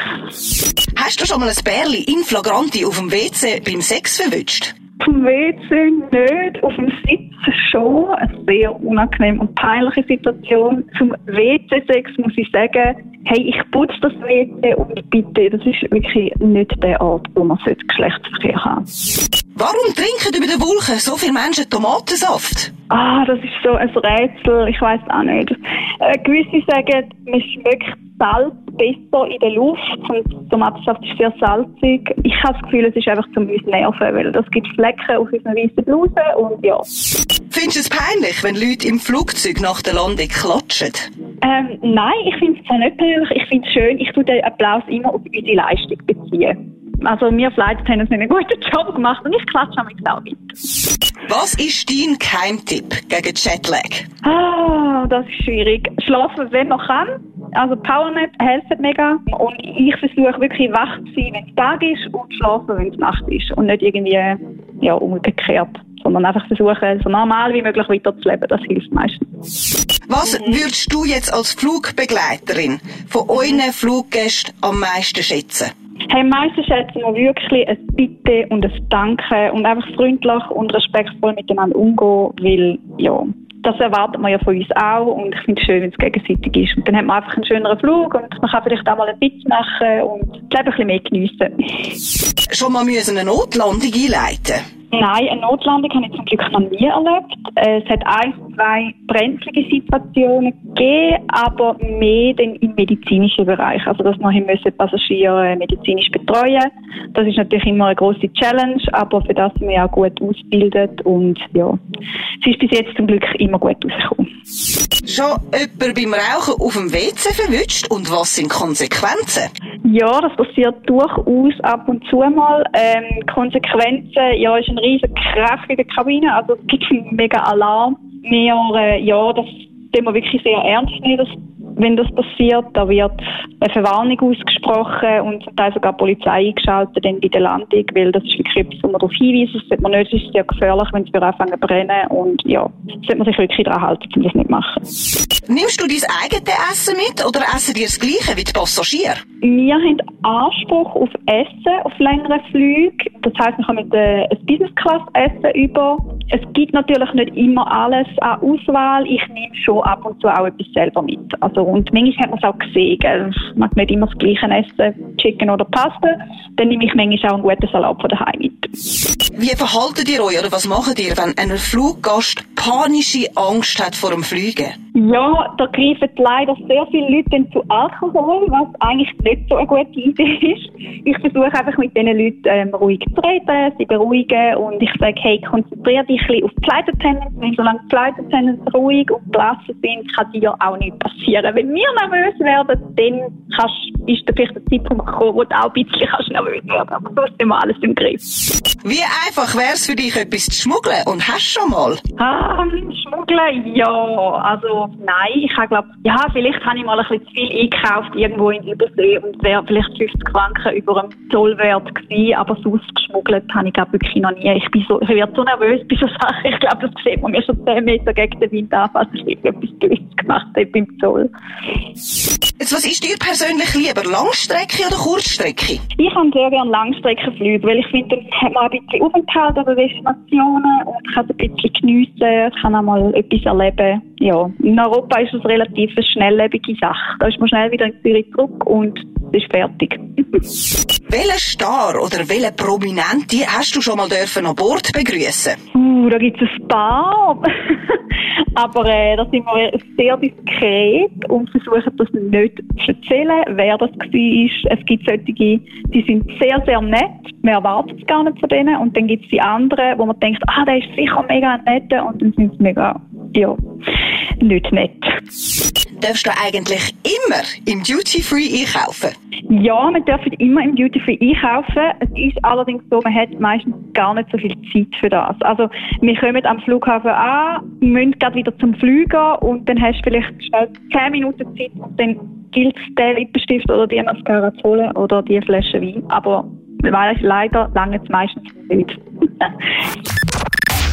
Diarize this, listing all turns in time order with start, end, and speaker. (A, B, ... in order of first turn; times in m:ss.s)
0:01.0-0:04.7 A
0:05.0-0:18.8 B
0:19.6-0:22.7 A
0:22.9-0:36.9 B
0:37.5-0:41.1 A
0:41.4-0:50.4 B
0:51.3-0:54.1 A
0:54.2-1:09.3 B
1:10.1-1:15.7 A
1:16.1-1:31.5 B
1:32.5-1:34.6 A
1:34.9-1:51.8 B
1:52.4-1:54.3 B
1:55.1-1:59.5 A
1:59.8-2:24.8 B
2:25.5-2:29.2 A
2:29.4-2:48.7 B
2:49.4-2:54.8 A
2:55.0-3:18.2 B
3:18.8-3:22.0 A
3:22.2-3:41.3 B
3:42.6-3:45.8 A
3:46.0-4:00.4 B
4:01.1-4:05.6 A
4:05.7-4:08.0 B
4:08.6-4:23.6 B
4:24.4-4:25.2 B
4:26.0-4:29.1 A
4:29.5-4:49.5 B